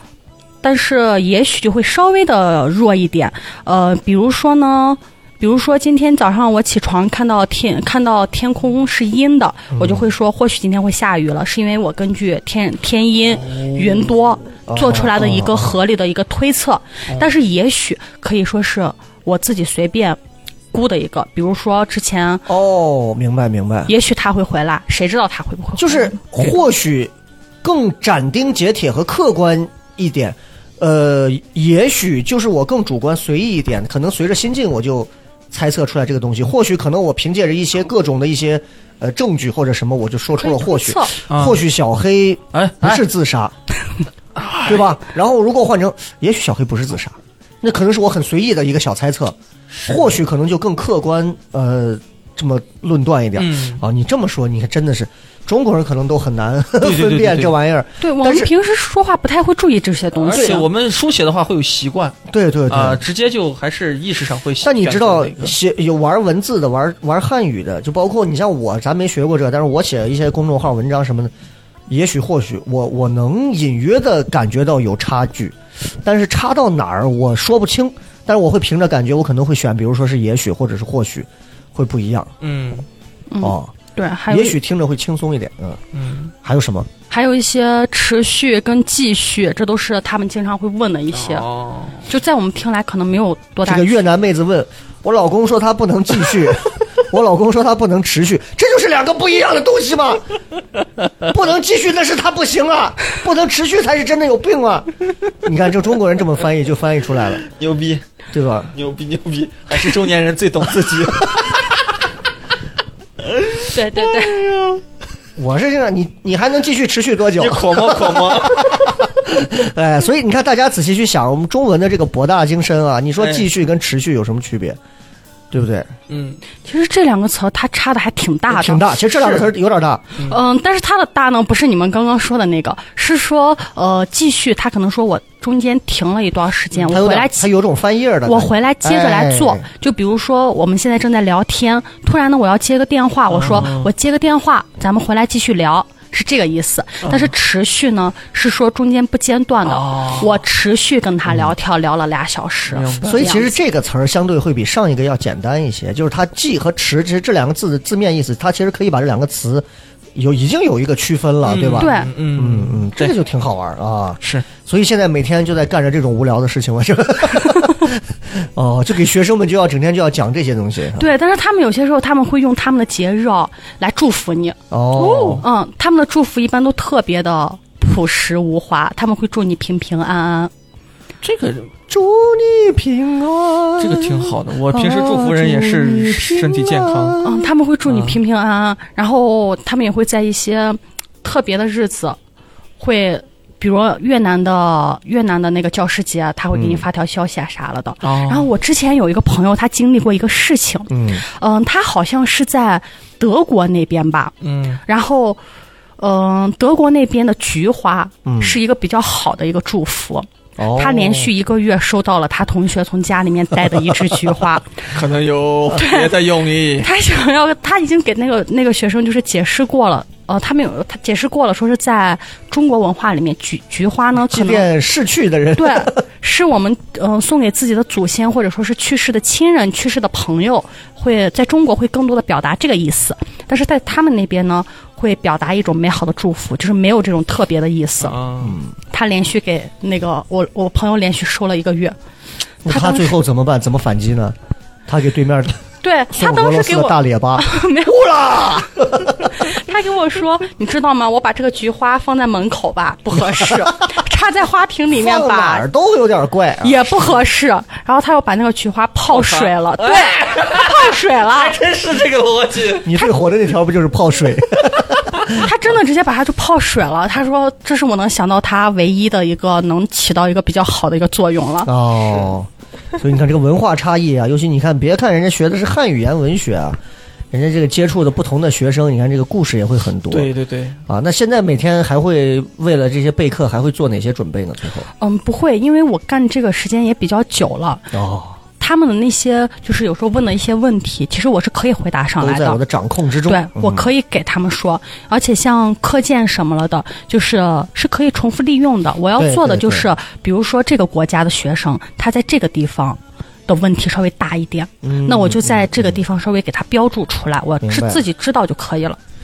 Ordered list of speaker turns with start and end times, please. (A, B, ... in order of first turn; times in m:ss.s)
0:00.6-0:20.2 A
0:09.7-0:10.1 B
0:13.4-0:14.1 C
0:14.7-0:15.8 B
0:20.7-0:22.5 A
0:22.5-0:23.9 B
0:23.9-0:26.2 A
0:25.8-0:27.1 B
0:27.6-0:43.5 B
0:40.4-0:41.1 A
0:41.3-0:41.6 C
0:42.5-0:43.0 C
0:44.4-0:44.9 C
0:44.6-0:58.5 B
0:49.7-0:50.0 C
0:53.4-0:53.8 C
0:56.8-0:57.5 C
0:58.0-1:00.6 A
1:00.1-1:05.5 C
1:00.3-1:00.6 B
1:02.3-1:03.0 B
1:04.6-1:11.3 B
1:11.9-1:22.3 B
1:22.4-1:22.8 C
1:23.3-1:24.6 A
1:23.4-1:23.7 B
1:24.3-1:25.8 B
1:25.9-1:26.3 C
1:26.4-1:26.9 B
1:27.1-1:31.4 A
1:31.1-1:32.0 C
1:32.0-1:34.0 A
1:33.6-1:40.2 B
1:41.2-1:44.9 B
1:45.4-1:47.4 B
1:47.5-1:48.0 C
1:48.3-1:48.7 B
1:48.7-1:51.8 C
1:53.2-1:54.8 C
1:53.7-1:54.4 A
1:55.4-2:04.8 B
1:57.4-1:58.8 C
2:03.2-2:03.5 C
2:05.5-2:05.9 B
2:06.1-2:06.4 C
2:06.6-2:08.8 A
2:08.5-2:10.1 B
2:10.2-2:17.4 A
2:16.9-2:19.6 B
2:18.2-2:33.6 A
2:23.3-2:23.9 C
2:29.6-2:30.4 C
2:32.7-2:33.3 C
2:33.0-2:51.1 B
2:41.4-2:43.1 C
2:41.8-2:42.1 A
2:51.0-3:00.5 A
2:54.7-2:55.4 B
2:55.0-2:55.4 C
3:01.2-3:01.7 C
3:01.9-3:07.5 B
3:03.8-3:07.2 C
3:07.2-3:12.2 A
3:07.8-3:08.2 C
3:12.8-3:24.3 A
3:16.5-3:16.8 B
3:18.0-3:18.5 C
3:20.9-3:21.2 B
3:24.4-3:24.8 C
3:24.8-3:25.4 A
3:26.0-3:34.8 A
3:28.2-3:28.6 B
3:30.6-3:31.3 B
3:34.9-3:36.9 C
3:35.7-3:36.1 A
3:36.8-3:44.7 A
3:44.2-3:46.0 B
3:45.6-3:58.2 A
3:58.0-3:58.6 C
3:58.4-3:58.7 B
3:58.9-4:02.0 A
4:02.6-4:04.3 B
4:02.7-4:03.2 A
4:04.9-4:05.6 B
4:05.8-4:08.1 A
4:06.1-4:09.5 B
4:09.3-4:15.6 A
4:13.2-4:13.7 B
4:14.9-4:17.1 B
4:16.6-4:21.6 A
4:19.1-4:23.0 C
4:22.8-4:25.5 B
4:25.3-4:31.7 A
4:31.6-4:36.8 B
4:37.3-4:40.3 B
4:40.1-4:40.8 C
4:40.9-4:44.9 B
4:45.0-4:47.9 A
4:47.9-4:48.4 B
4:48.6-4:52.6 A
4:52.2-4:53.9 B
4:53.3-5:09.0 A
4:59.2-4:59.9 B
5:04.8-5:06.0 B
5:07.6-5:08.0 B